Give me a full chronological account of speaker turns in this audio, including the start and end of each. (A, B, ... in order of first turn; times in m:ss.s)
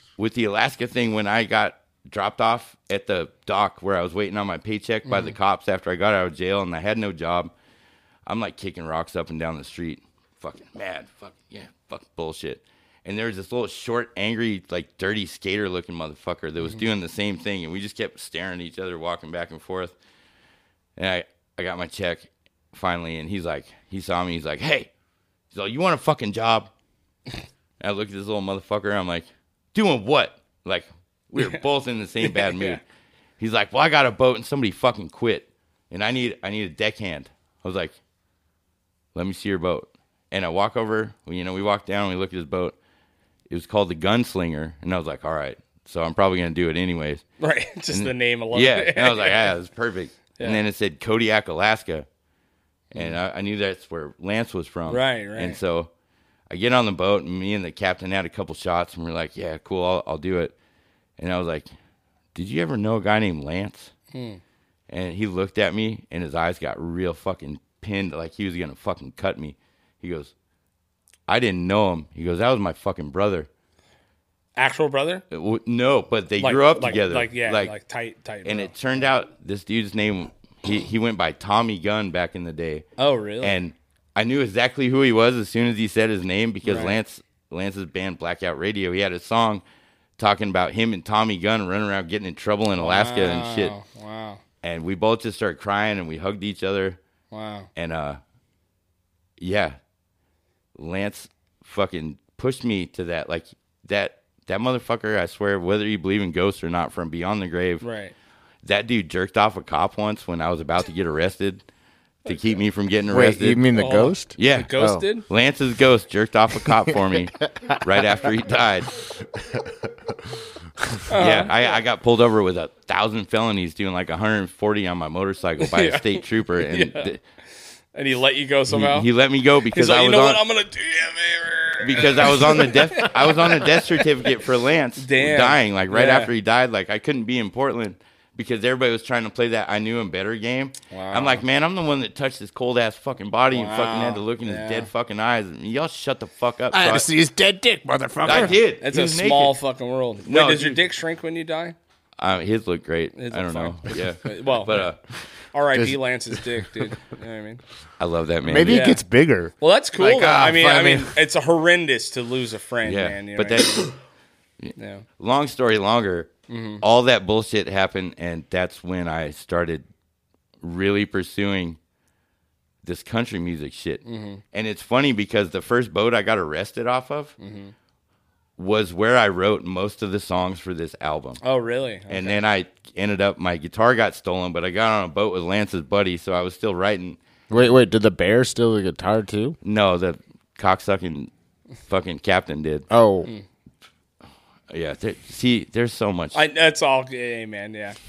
0:00.2-0:07.5 A
0:05.1-0:05.4 B
0:08.3-0:20.0 A
0:21.0-0:24.9 A
0:25.5-0:26.7 A
0:27.8-0:32.8 A
0:31.4-0:31.6 B
0:32.2-0:32.8 B
0:33.4-0:38.0 A
0:39.2-0:42.8 A
0:43.5-0:47.2 A
0:47.4-0:49.5 B
0:47.9-0:52.1 A
0:52.9-0:55.9 A
0:54.9-0:55.6 B
0:56.5-1:00.6 A
1:01.2-1:01.7 A
1:02.4-1:03.9 A
1:04.1-1:04.4 B
1:04.9-1:10.3 A
1:11.3-1:13.5 A
1:14.6-1:15.2 B
1:15.3-1:17.8 A
1:16.4-1:18.7 B
1:18.4-1:22.8 A
1:23.0-1:23.6 B
1:23.4-1:29.6 A
1:26.6-1:27.0 B
1:30.2-1:33.8 A
1:32.8-1:34.4 B
1:34.6-1:37.0 A
1:37.3-1:37.7 B
1:37.8-1:38.2 A
1:39.4-1:39.8 A
1:40.8-1:47.8 A
1:47.8-1:48.1 B
1:48.6-1:51.6 A
1:52.2-1:53.6 A
1:53.1-1:55.0 C
1:53.7-1:55.3 B
1:54.4-1:58.9 A
1:56.9-1:57.8 C
1:59.2-2:01.0 C
2:01.1-2:01.5 B
2:01.1-2:07.2 A
2:05.6-2:07.1 B
2:07.9-2:09.1 B
2:08.7-2:10.4 A
2:09.7-2:14.1 B
2:11.8-2:27.1 A
2:15.0-2:16.3 B
2:20.9-2:21.4 B
2:23.5-2:24.9 B
2:26.7-2:28.6 C
2:28.2-2:29.6 A
2:28.3-2:31.8 B
2:30.2-2:30.8 A
2:32.2-2:35.0 A
2:33.2-2:34.9 B
2:35.5-2:37.6 B
2:35.7-2:36.9 C
2:38.0-2:38.9 A
2:38.4-2:41.2 C
2:38.6-2:39.0 B
2:39.6-2:43.9 B
2:42.8-2:43.9 A
2:44.6-2:49.9 A
2:44.8-2:45.0 B
2:46.5-2:46.8 B
2:50.6-2:51.8 A
2:52.8-2:57.4 A
2:54.0-2:54.4 B
2:57.4-2:57.7 B
2:58.6-3:01.4 A
3:01.4-3:02.4 B
3:02.1-3:07.2 A
3:07.5-3:09.6 C
3:09.6-3:11.3 A
3:11.9-3:12.9 A
3:12.9-3:13.3 C
3:14.7-3:16.4 A
3:16.3-3:18.0 B